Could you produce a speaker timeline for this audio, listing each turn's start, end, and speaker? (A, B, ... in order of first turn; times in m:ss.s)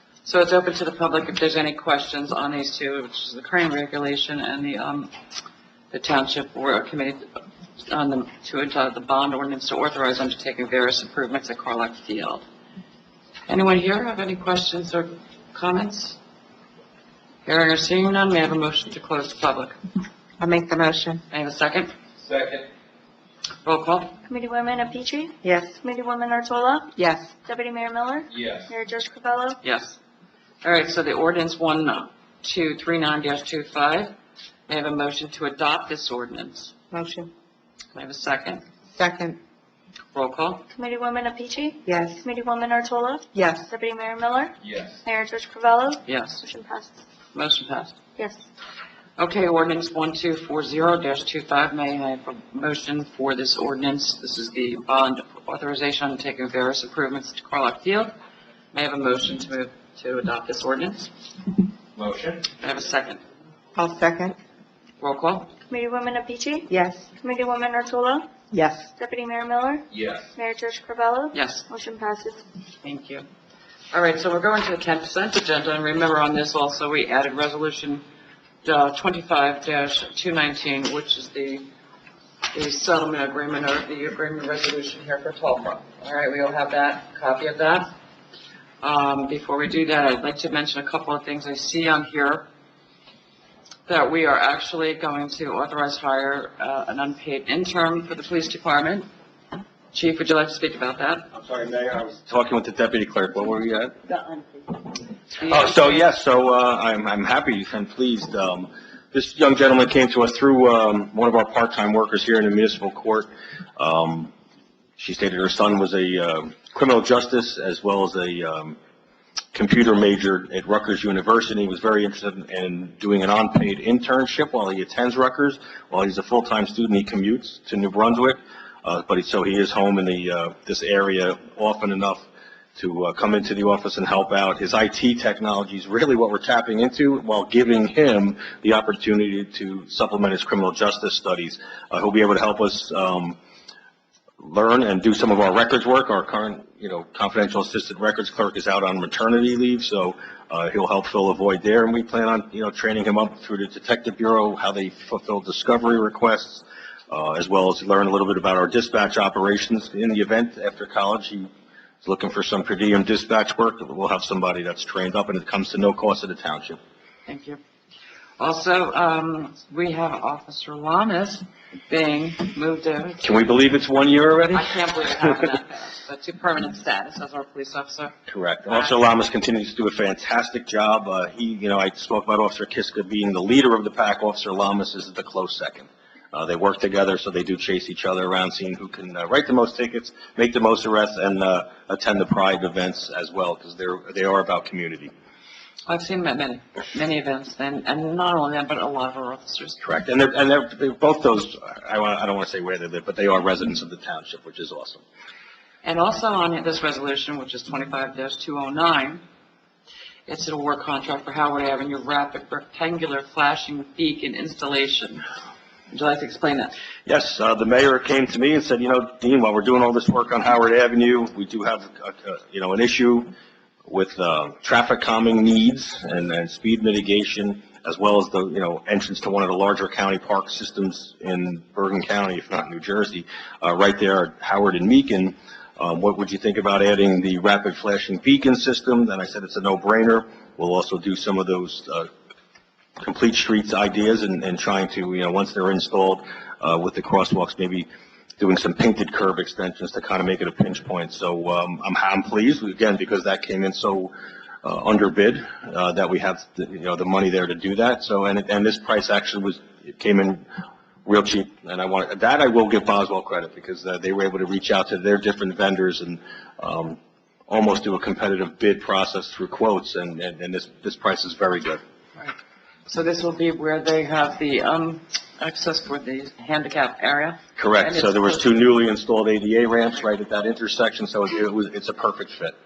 0:00.2-0:05.1 A
0:05.9-0:07.3 A
0:07.8-0:12.4 A
0:13.5-0:16.2 A
0:17.4-0:19.8 A
0:20.4-0:21.2 B
0:21.3-0:21.9 A
0:22.2-0:22.7 C
0:23.6-0:24.2 A
0:24.3-0:29.6 D
0:25.4-0:25.7 B
0:27.0-0:27.3 B
0:28.3-0:28.7 C
0:29.6-0:30.0 A
0:30.6-0:34.2 A
0:34.7-0:36.7 A
0:36.9-0:37.3 B
0:37.9-0:38.6 A
0:38.9-0:39.4 B
0:40.1-0:40.7 A
0:40.7-0:47.0 D
0:41.9-0:42.2 B
0:43.3-0:43.7 B
0:44.6-0:45.0 C
0:46.1-0:46.4 A
0:47.3-0:48.0 A
0:48.2-0:48.5 D
0:49.2-0:58.1 A
0:58.7-1:01.1 A
1:02.0-1:02.4 C
1:02.6-1:03.2 A
1:03.8-1:04.4 B
1:05.0-1:05.5 A
1:05.7-1:08.3 D
1:06.7-1:07.1 B
1:08.5-1:08.9 B
1:09.0-1:12.4 D
1:09.9-1:10.3 C
1:11.3-1:11.6 A
1:12.8-1:13.3 A
1:13.9-1:18.0 A
1:18.6-1:21.7 A
1:22.5-1:27.9 A
1:28.8-1:32.5 A
1:33.9-1:39.1 A
1:39.9-1:41.3 A
1:41.3-1:44.0 E
1:44.1-1:44.5 B
1:45.3-1:46.0 A
1:45.4-1:54.3 E
1:55.0-1:58.8 E
1:59.5-2:23.4 E
2:24.4-2:41.5 E
2:42.0-2:46.8 E
2:47.3-2:47.6 A
2:48.4-2:53.4 A
2:53.2-2:54.8 E
2:54.5-2:58.2 A
2:58.3-3:15.1 E
2:58.7-2:58.9 A
3:15.9-3:19.8 A
3:19.8-3:25.0 E
3:25.8-3:29.2 A
3:30.3-3:35.3 A
3:35.9-3:36.8 A
3:37.1-3:43.3 E
3:43.9-4:02.1 E
4:03.0-4:07.9 E
4:08.4-4:14.1 E
4:14.6-4:20.4 E
4:21.0-4:27.0 E
4:27.5-4:31.8 E
4:32.9-4:38.5 A
4:37.6-4:42.6 E